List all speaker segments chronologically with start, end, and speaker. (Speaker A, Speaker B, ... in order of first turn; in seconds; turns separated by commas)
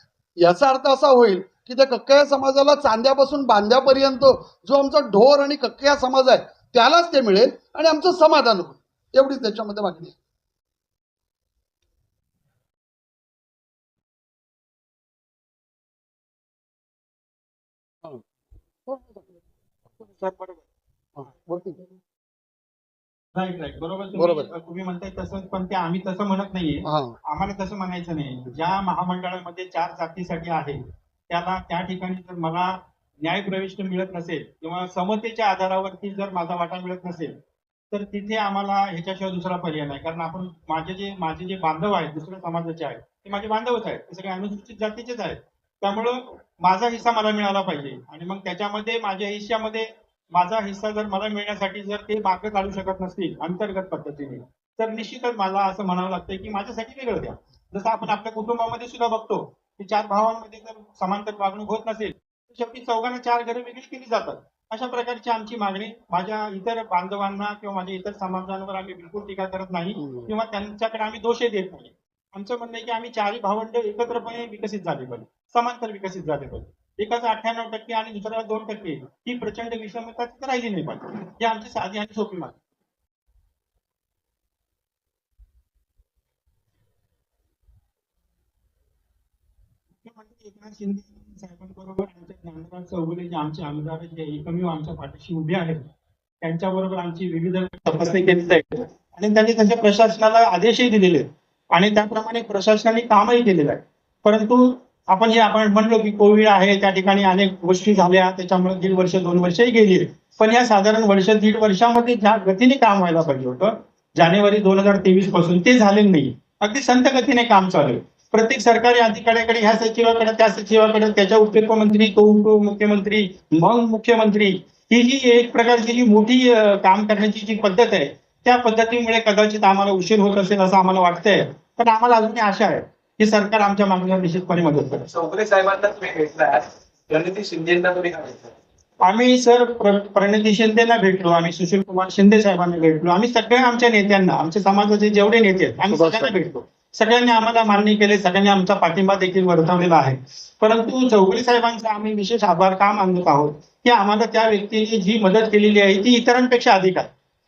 Speaker A: 0.4-10.1, Speaker A: 18.9-19.4, Speaker B: 20.0-20.7, Speaker A: 21.2-21.8, Speaker B: 23.3-37.4, Speaker A: 24.1-24.5, Speaker A: 26.8-27.1, Speaker B: 37.9-82.6, Speaker A: 70.0-70.3, Speaker B: 90.0-95.9, Speaker B: 96.4-135.2, Speaker C: 135.1-138.5, Speaker B: 139.0-157.1